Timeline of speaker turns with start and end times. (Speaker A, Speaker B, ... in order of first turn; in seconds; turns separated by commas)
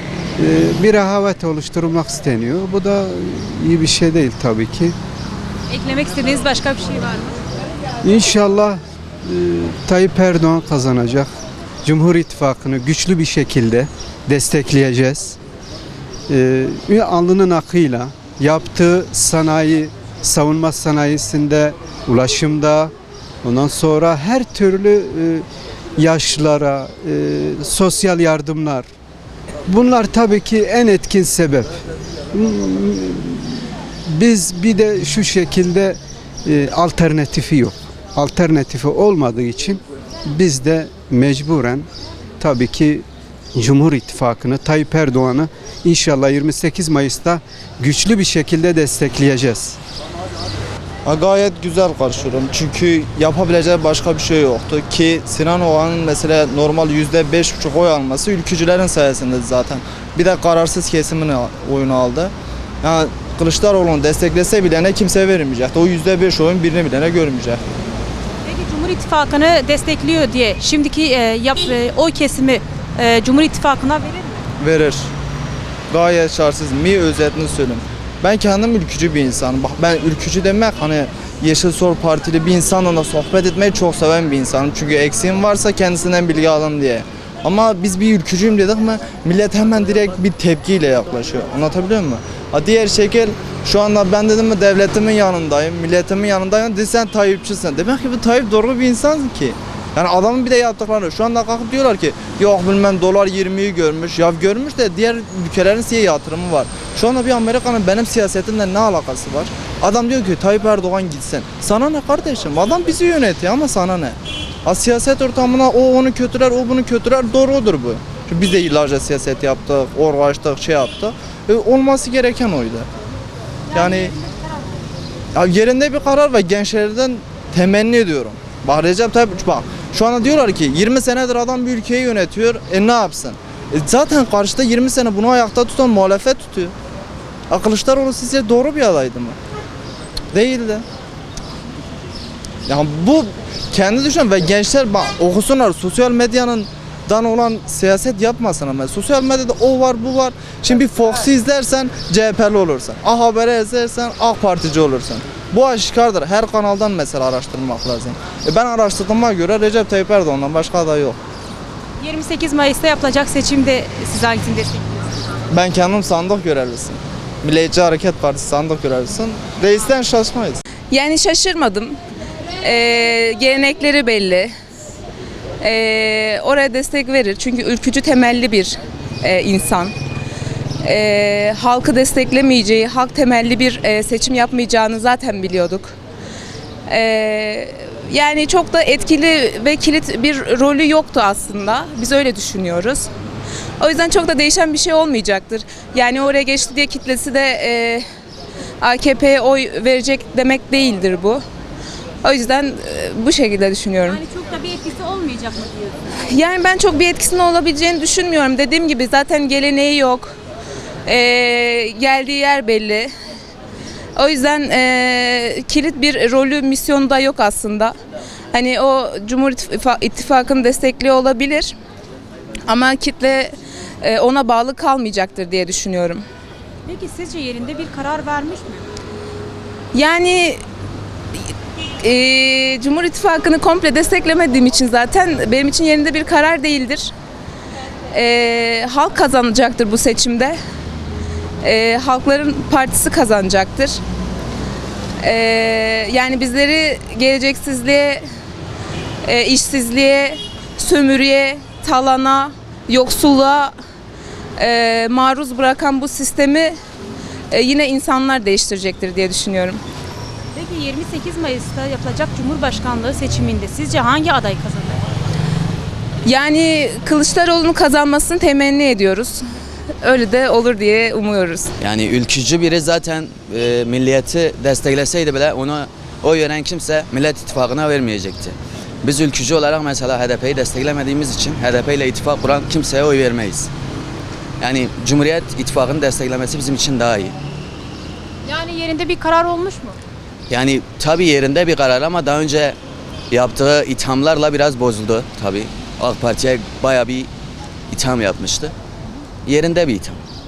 Speaker A: 0.4-4.9, Speaker B: 5.7-7.4, Speaker A: 8.0-15.4, Speaker A: 16.3-22.9, Speaker A: 23.4-25.4, Speaker A: 26.0-28.9, Speaker A: 29.7-31.7, Speaker A: 32.3-41.9, Speaker A: 42.4-49.8, Speaker C: 51.0-67.6, Speaker B: 68.4-74.4, Speaker C: 74.6-75.1, Speaker C: 75.9-122.9, Speaker B: 123.7-124.6, Speaker C: 123.7-124.1, Speaker C: 125.3-136.7, Speaker C: 137.5-139.4, Speaker C: 140.3-140.8, Speaker C: 142.7-161.2, Speaker B: 162.0-165.2, Speaker C: 165.5-170.6, Speaker D: 170.9-171.9, Speaker D: 172.6-174.5, Speaker D: 175.6-179.9, Speaker D: 180.8-185.9, Speaker D: 186.9-193.1, Speaker D: 193.8-198.0, Speaker D: 198.8-201.4, Speaker D: 202.2-204.2, Speaker B: 204.1-206.0, Speaker D: 206.3-210.3, Speaker D: 211.1-213.1, Speaker D: 214.2-217.9, Speaker D: 218.5-221.7, Speaker D: 222.7-223.5, Speaker D: 224.0-226.2, Speaker B: 226.9-228.8, Speaker D: 229.9-230.6, Speaker D: 232.0-237.1, Speaker D: 238.1-240.6, Speaker D: 241.6-244.0, Speaker D: 245.2-248.2, Speaker D: 249.2-253.7, Speaker D: 254.6-256.8, Speaker D: 257.5-259.8, Speaker B: 260.5-265.0, Speaker D: 266.2-269.4, Speaker D: 270.0-271.7, Speaker E: 271.8-283.7, Speaker E: 284.6-287.4, Speaker B: 288.4-290.0, Speaker E: 290.5-292.8, Speaker E: 293.3-297.3, Speaker E: 297.9-298.8, Speaker E: 299.4-300.2